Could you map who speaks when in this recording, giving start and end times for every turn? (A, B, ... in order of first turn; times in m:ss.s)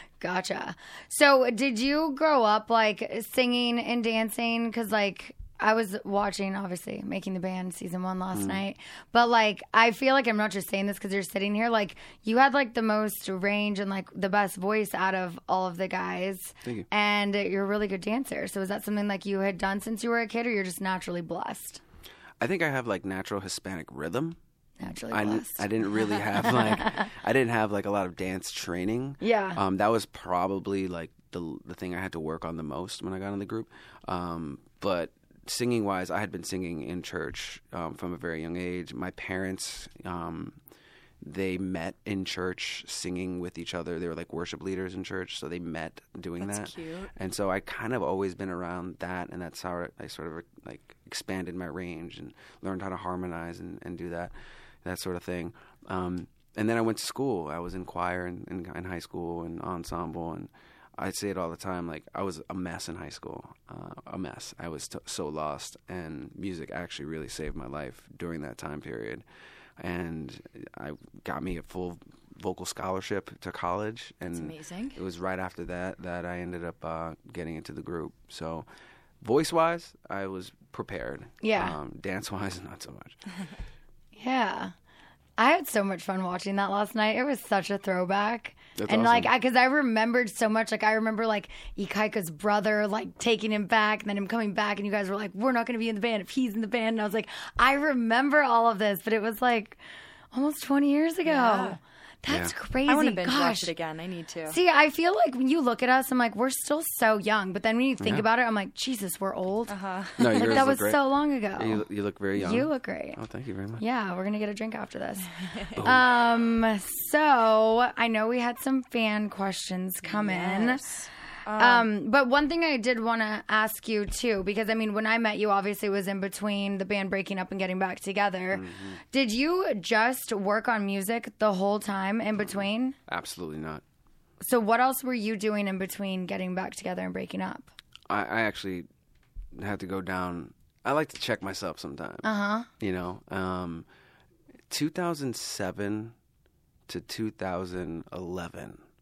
0:00.2-0:21.8 A
0:08.3-0:08.6 B
0:22.4-0:24.4 B
0:24.8-0:25.7 A
0:25.1-0:40.6 B
0:26.4-0:26.9 A
0:29.2-0:29.6 A
0:41.2-0:54.3 B
0:46.4-0:47.1 C
0:54.8-1:09.2 B
1:09.8-1:18.7 B
1:14.2-1:15.0 C
1:19.2-1:23.2 B
1:21.4-1:21.8 A
1:24.2-1:24.7 A
1:25.4-1:39.8 A
1:28.8-1:29.3 B
1:40.3-1:43.7 A
1:41.2-1:41.8 C
1:42.3-1:42.5 B
1:42.9-1:44.6 C
1:44.5-1:49.8 A
1:48.0-1:48.2 B
1:49.7-1:50.6 C
1:50.2-1:51.0 B
1:50.3-1:51.8 A
1:51.6-1:53.8 B
1:52.4-1:53.2 A
1:53.8-1:55.3 A
1:55.7-1:56.1 B
1:55.8-2:00.8 A
2:00.0-2:01.9 C
2:01.6-2:13.0 A
2:08.5-2:09.0 B
2:12.4-2:13.8 B
2:14.4-2:17.7 A
2:18.1-2:18.9 B
2:19.6-2:22.3 B
2:22.2-2:22.7 A
2:22.8-2:23.9 B
2:24.7-2:26.1 B
2:26.9-2:28.8 B